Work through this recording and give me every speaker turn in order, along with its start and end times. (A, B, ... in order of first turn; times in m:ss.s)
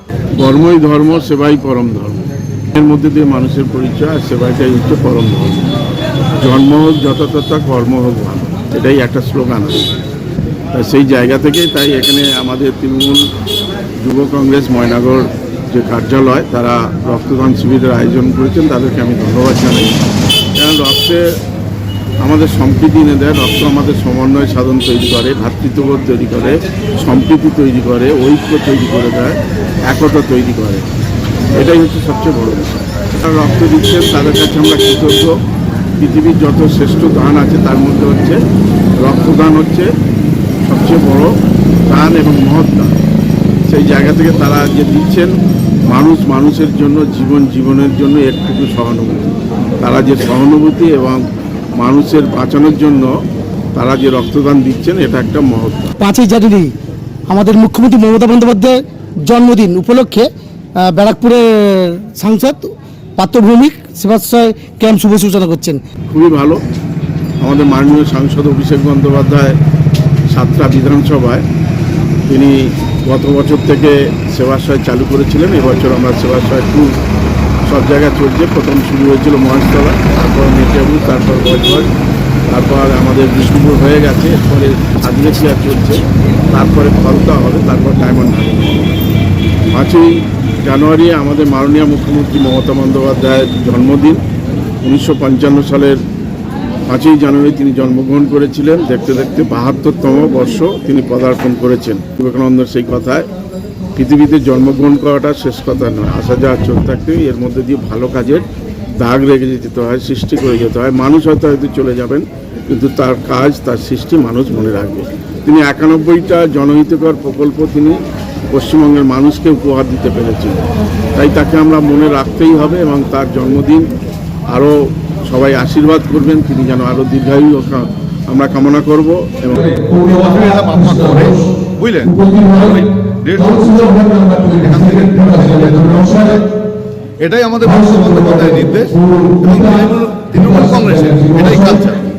0:00.4-0:05.7 A
0:06.4-0:09.9 A
0:10.7-0:13.2 A
0:14.0-0:20.0 A
0:20.6-0:21.2 A
0:22.2-0:30.9 A
0:31.5-0:35.3 A
0:36.0-0:38.4 A
0:39.0-0:39.9 A
0:40.6-0:41.3 A
0:41.9-0:43.0 A
0:43.7-0:45.3 A
0:45.9-0:51.2 A
0:51.8-0:53.1 A
0:53.7-0:55.9 A
0:56.0-0:56.7 B
0:57.3-1:00.3 B
1:00.8-1:05.8 B
1:06.1-1:06.6 A
1:07.4-1:09.6 A
1:10.3-1:11.4 A
1:12.3-1:16.9 A
1:17.6-1:21.9 A
1:22.5-1:29.0 A
1:29.7-1:34.2 A
1:34.8-1:36.0 A
1:36.9-1:43.3 A
1:44.0-2:03.9 A
2:04.5-2:10.0 A
2:10.1-2:16.4 C
2:12.2-2:12.5 B
2:13.5-2:14.5 B
2:17.2-2:22.0 C